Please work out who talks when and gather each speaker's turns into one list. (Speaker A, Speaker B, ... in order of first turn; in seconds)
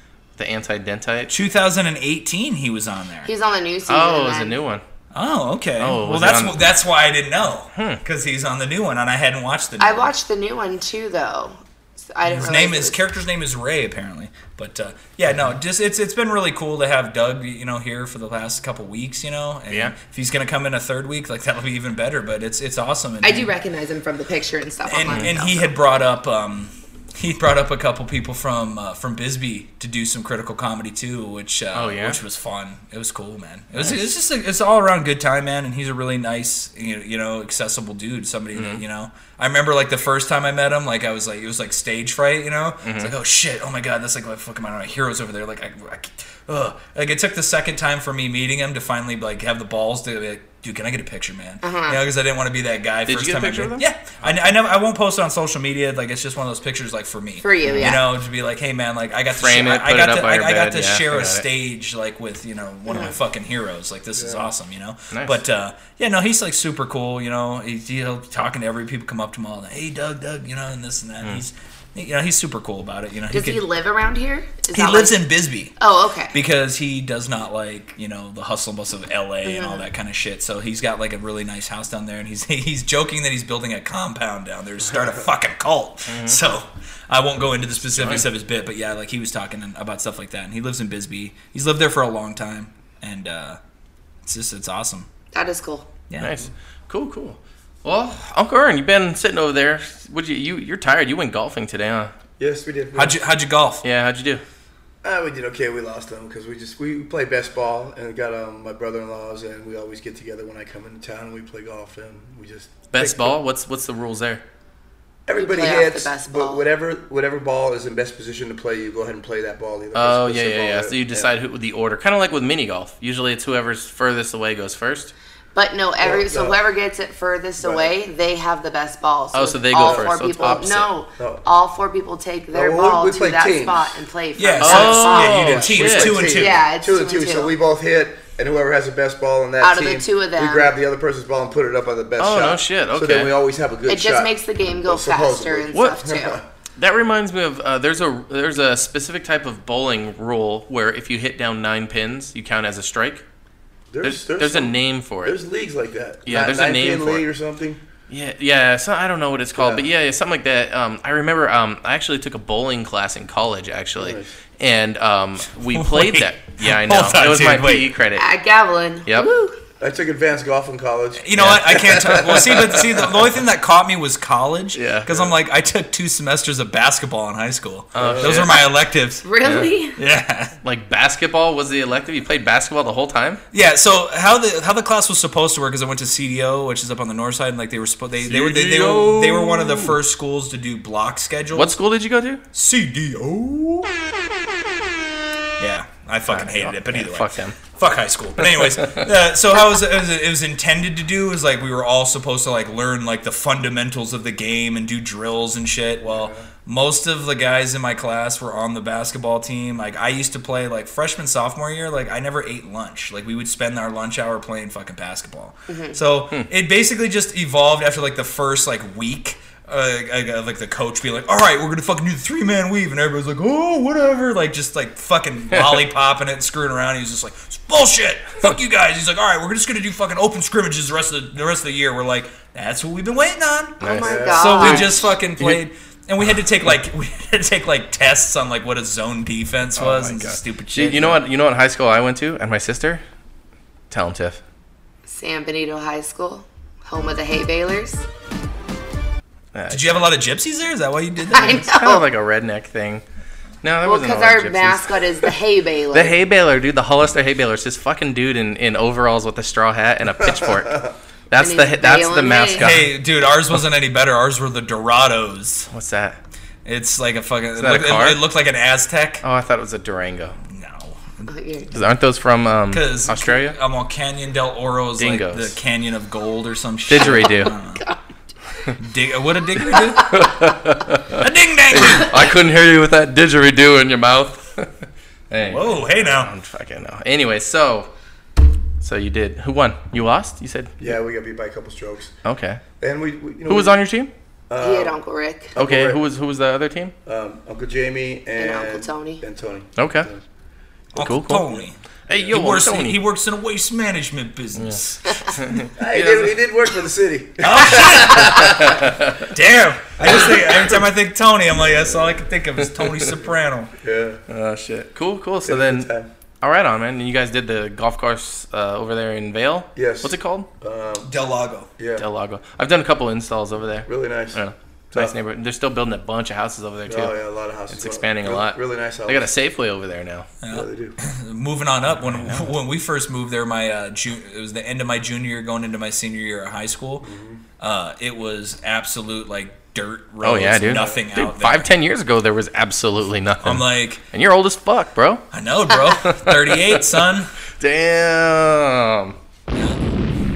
Speaker A: 0.4-1.3, 3.9-4.8, 5.8-6.6, 7.8-8.0, 31.7-32.2, 38.5-38.8, 42.8-43.1, 53.1-54.5, 57.6-58.0, 59.4-61.5, 65.1-65.4, 86.1-86.4, 87.9-88.3, 96.2-102.1, 103.8-104.4, 112.9-114.4, 119.9-125.1, 129.3-130.9, 134.6-136.3, 142.2-143.3, 145.7-146.0, 146.8-153.2, 154.0-155.4, 156.2-157.3, 158.1-168.3, 169.1-169.3, 171.4-173.1, 174.7-175.1, 177.9-178.7, 179.4-179.7, 180.6-183.4, 188.2-190.0, 191.5-192.4, 196.3-197.6, 198.4-199.1, 233.8-235.6, 239.8-243.0, 243.9-244.4, 249.5-250.1, 251.4-253.0, 253.6-255.3, 255.9-262.9, 265.7-266.2, 267.6-268.2, 269.2-270.4, 271.7-273.6, 275.0-275.6, 276.9-277.6, 279.6-287.9, 288.8-291.0, 292.2-292.6, 293.4-294.1, 295.6-296.9, 299.8-300.1, 301.0-301.5, 302.1-303.0, 304.6-306.4, 307.9-309.2, 314.3-315.9, 316.4-320.5, 321.9-327.1, 327.7-330.3, 332.0-332.5, 340.2-345.2, 345.9-347.1, 347.6-349.2
Speaker B: 1.3-3.3, 5.1-10.1, 12.3-23.5, 24.9-73.6, 74.7-75.8, 76.3-93.6, 94.2-95.1, 96.1-96.4, 103.0-103.8, 134.4-136.6, 165.7-167.9, 171.2-179.2, 180.0-180.6, 183.5-191.8, 192.5-193.9, 195.6-233.8, 234.3-241.2, 249.7-251.6, 262.6-265.7, 266.6-269.2, 270.5-271.3, 272.7-277.8, 278.8-280.3, 281.1-282.2, 285.4-286.3, 300.9-305.3, 307.4-313.7, 321.0-321.7, 330.4-337.1, 337.6-341.7, 343.4-344.0, 345.3-347.3, 349.5-349.8
Speaker C: 3.2-4.6, 9.8-13.0, 23.2-25.7, 51.6-52.0, 57.4-58.0, 62.9-63.1, 73.3-76.4, 79.4-79.8, 95.3-95.9, 115.4-116.6, 125.5-137.5, 139.6-140.7, 143.9-146.4, 168.2-169.6, 179.2-180.0, 215.7-216.0, 233.8-235.1, 245.1-248.1, 251.3-252.1, 253.8-256.2, 261.4-262.7, 271.3-271.7, 280.0-280.3, 294.6-295.5, 298.4-299.2, 305.1-305.3
Speaker D: 64.2-64.5, 102.4-103.2, 105.0-113.4, 115.3-121.3, 126.0-126.6, 127.6-127.9, 129.7-130.1, 131.2-131.4, 132.5-134.0, 135.8-146.5, 153.9-157.8, 159.6-159.8, 164.0-164.3, 169.8-172.5, 178.0-178.6, 206.0-206.4, 233.9-234.8, 260.2-260.9, 290.8-292.1, 292.8-293.8, 294.5-295.0, 295.6-296.0, 297.1-300.2, 305.8-308.9, 310.0-310.8, 311.5-312.3, 312.9-314.2, 315.4-316.1, 319.8-321.1, 321.8-322.1, 323.9-324.4, 326.9-329.3, 330.5-330.9, 337.0-337.4, 340.7-341.0